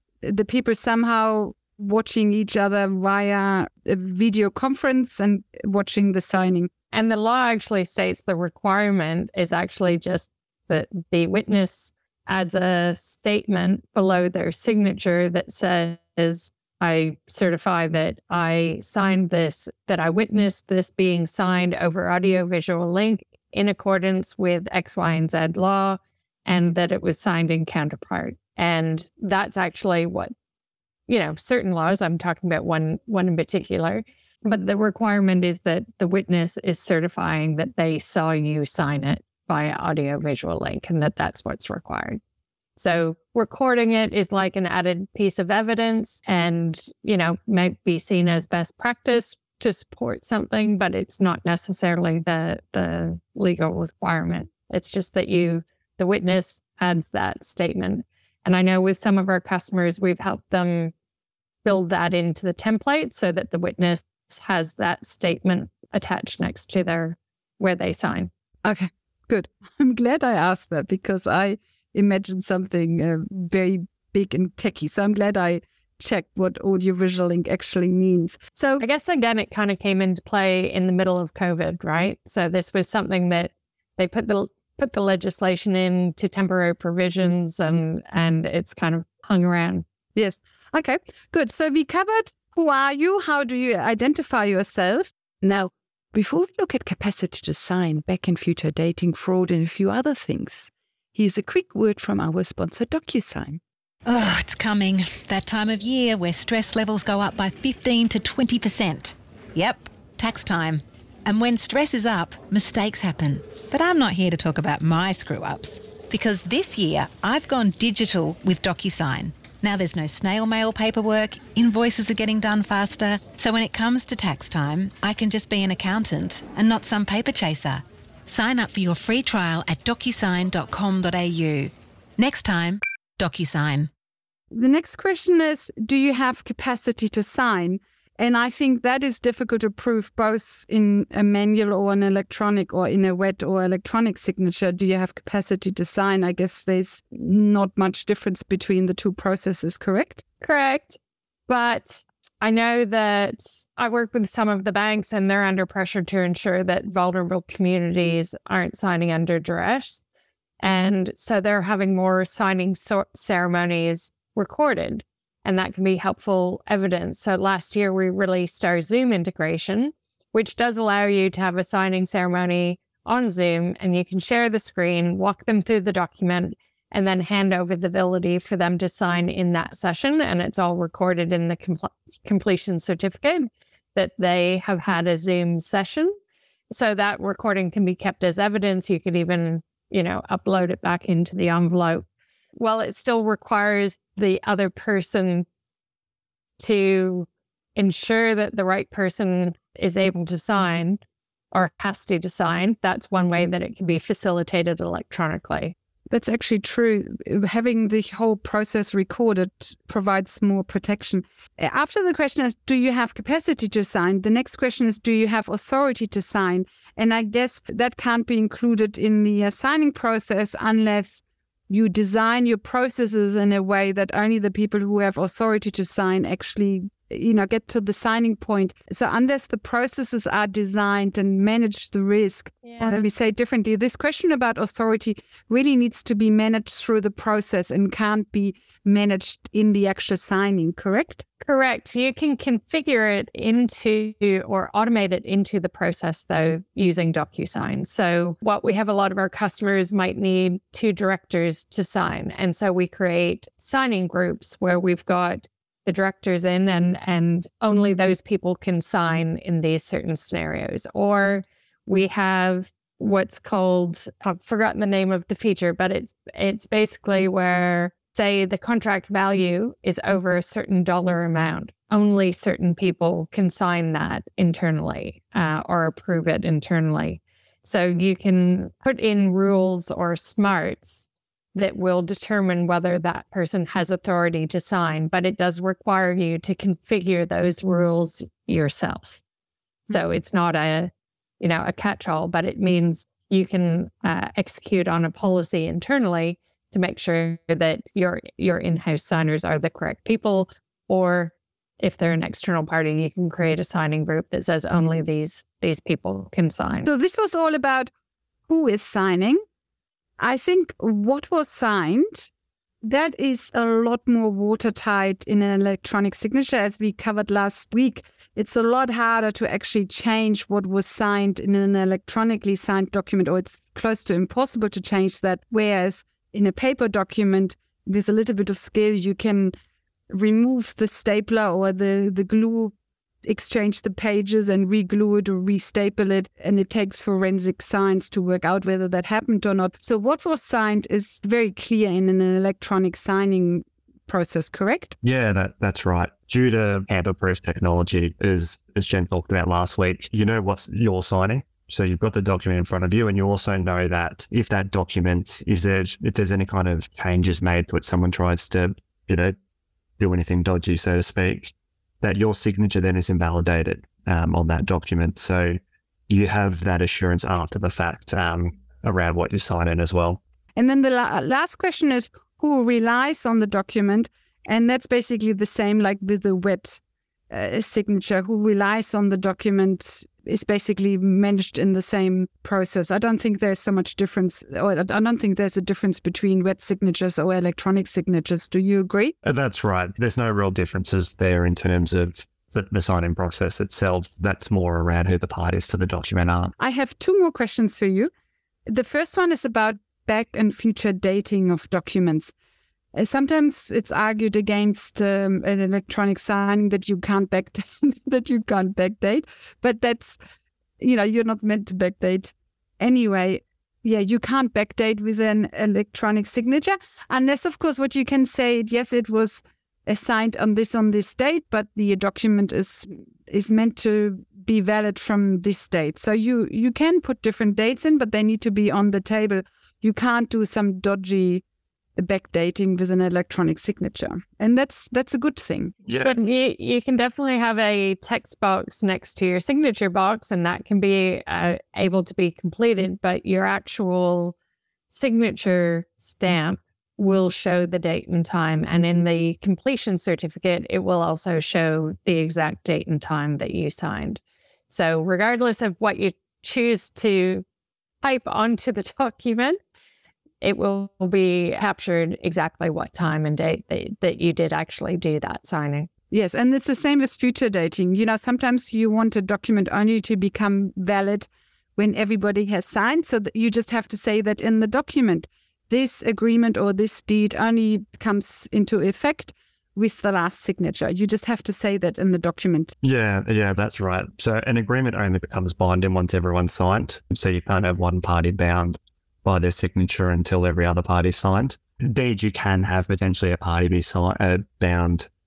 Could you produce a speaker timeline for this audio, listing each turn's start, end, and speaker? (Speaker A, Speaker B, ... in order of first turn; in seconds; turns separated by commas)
Speaker A: 0.2-6.7, Speaker B: 6.9-30.3, Speaker B: 31.1-42.2, Speaker B: 42.8-60.9, Speaker B: 61.6-68.3, Speaker A: 68.6-78.8, Speaker B: 78.8-89.8, Speaker A: 90.1-95.1, Speaker C: 95.4-103.6, Speaker D: 104.0-133.9, Speaker A: 134.5-150.2, Speaker B: 150.4-160.0, Speaker B: 160.6-186.1, Speaker B: 186.7-192.1, Speaker B: 192.6-195.5, Speaker B: 196.6-201.0, Speaker B: 201.5-205.7, Speaker A: 206.1-241.2, Speaker B: 241.4-289.2, Speaker B: 289.9-306.9, Speaker A: 306.8-307.9, Speaker A: 308.5-309.4, Speaker A: 310.2-312.3, Speaker A: 312.8-329.5, Speaker A: 330.1-344.9, Speaker E: 345.0-359.3, Speaker E: 360.0-370.2, Speaker A: 370.6-376.8, Speaker A: 377.3-389.1, Speaker E: 389.2-396.5, Speaker A: 396.6-398.1, Speaker A: 398.7-402.3, Speaker A: 402.9-410.2, Speaker A: 410.8-431.4, Speaker A: 431.9-435.7, Speaker E: 435.9-436.1, Speaker B: 436.0-444.3, Speaker B: 444.9-457.4, Speaker B: 458.0-459.6, Speaker B: 460.4-465.9, Speaker A: 466.1-482.7, Speaker E: 482.8-495.1